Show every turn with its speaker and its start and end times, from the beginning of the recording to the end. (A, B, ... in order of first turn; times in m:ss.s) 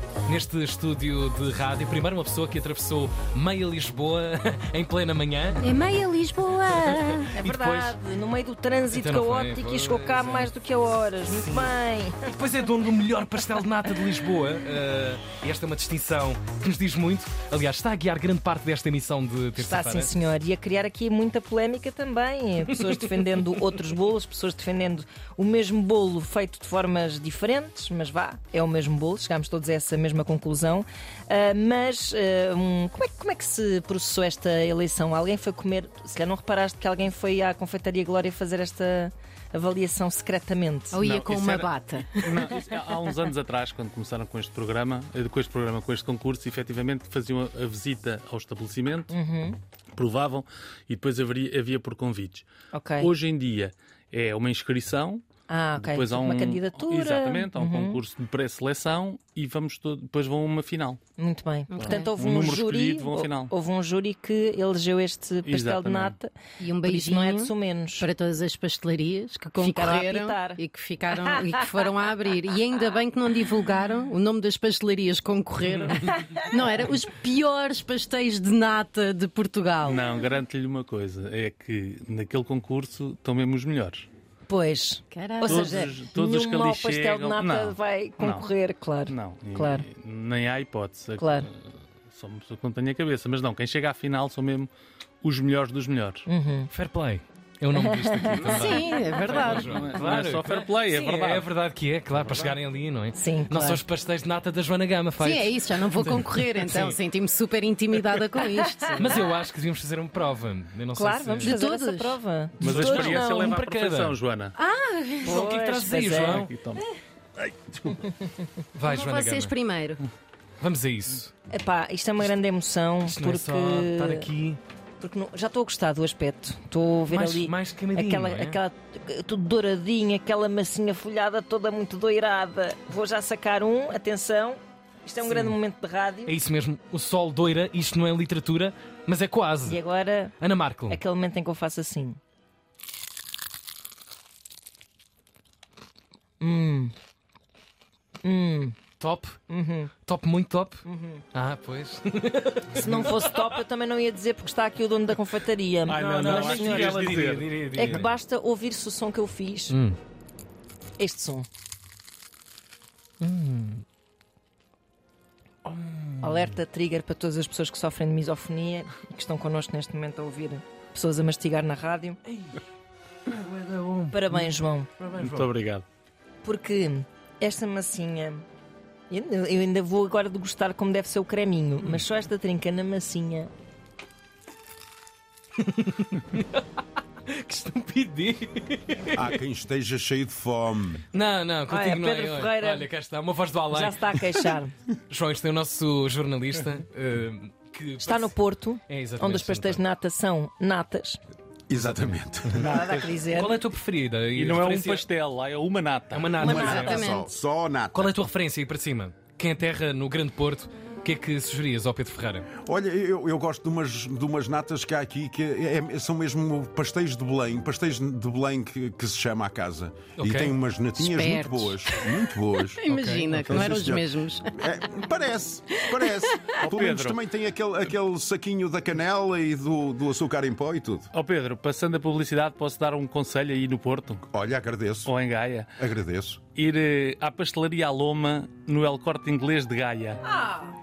0:00.2-0:05.6 A
0:05.6-0:07.3 B
0:07.4-0:12.2 C
0:07.4-0:07.9 A
0:08.9-0:10.5 A
0:11.3-0:11.7 A
0:12.2-0:20.1 A
0:19.6-0:41.0 C
0:40.9-0:43.0 B
0:41.0-0:49.1 D
0:49.1-0:49.6 C
0:49.9-1:01.0 D
0:52.7-0:53.1 C
0:55.5-0:58.0 C
1:01.2-1:08.1 C
1:01.7-1:02.1 B
1:01.7-1:03.5 D
1:05.4-1:06.2 D
1:06.6-1:20.1 B
1:09.6-1:10.6 C
1:19.8-1:24.1 D
1:24.5-1:29.8 C
1:25.1-1:25.8 B
1:25.4-1:28.5 D
1:29.1-1:34.7 D
1:31.2-1:31.5 C
1:35.2-1:36.2 D
1:36.3-1:36.7 C
1:36.7-1:47.0 A
1:37.7-1:38.8 C
1:38.4-1:39.8 B
1:39.2-1:41.5 D
1:42.3-1:42.6 E
1:43.1-1:43.8 C
1:45.2-1:49.2 B
1:49.0-1:51.6 A
1:51.0-1:53.6 C
1:51.4-1:52.2 B
1:52.6-1:54.2 A
1:52.6-1:54.6 D
1:54.6-1:55.4 B
1:55.2-1:56.5 C
1:55.2-1:56.5 A
1:56.2-1:56.8 D
1:57.5-1:58.0 D
1:58.0-1:58.4 C
1:58.7-1:59.5 A
1:58.8-2:00.0 B
2:00.6-2:01.3 A
2:01.5-2:04.3 C
2:03.0-2:04.6 A
2:05.0-2:16.3 C
2:07.1-2:08.6 A
2:15.2-2:15.5 A
2:16.3-2:19.8 A
2:19.6-2:20.3 C
2:20.4-2:21.0 A
2:20.9-2:22.2 C
2:26.4-2:26.9 C
2:28.2-2:28.7 C
2:29.0-2:29.4 A
2:29.5-2:29.9 C
2:30.0-2:30.8 A
2:30.8-2:31.2 C
2:31.3-2:33.4 A
2:32.8-2:39.8 C
2:35.8-2:37.6 D
2:35.9-2:38.1 A
2:39.7-2:40.0 A
2:41.0-2:41.4 C
2:43.2-2:43.8 A
2:45.6-2:46.5 A
2:46.2-2:52.2 C
2:52.2-2:52.6 A
2:53.3-2:54.5 A
2:54.1-2:54.9 C
2:55.0-2:55.4 A
2:55.1-2:55.8 D
2:56.4-2:58.4 C
2:59.1-3:03.5 C
3:05.6-3:09.3 A
3:09.1-3:11.0 E
3:11.1-3:14.0 A
3:11.7-3:12.9 C
3:13.7-3:14.7 C
3:15.1-3:18.3 A
3:18.0-3:21.2 C
3:18.9-3:19.8 A
3:21.7-3:22.7 E
3:22.5-3:23.1 D
3:22.6-3:23.6 C
3:23.3-3:25.0 A
3:24.3-3:26.4 D
3:26.1-3:27.0 A
3:26.4-3:27.2 C
3:26.4-3:28.1 E
3:26.4-3:27.3 B
3:27.9-3:32.5 A
3:32.6-3:42.8 E
3:40.2-3:40.5 A
3:41.0-3:44.5 B
3:42.9-3:43.6 A
3:43.3-3:51.1 E
3:45.8-3:46.6 B
3:46.6-3:47.2 D
3:51.1-3:54.2 D
3:54.3-3:55.1 E
3:55.0-3:55.7 D
3:55.8-3:56.4 E
3:56.5-4:00.2 D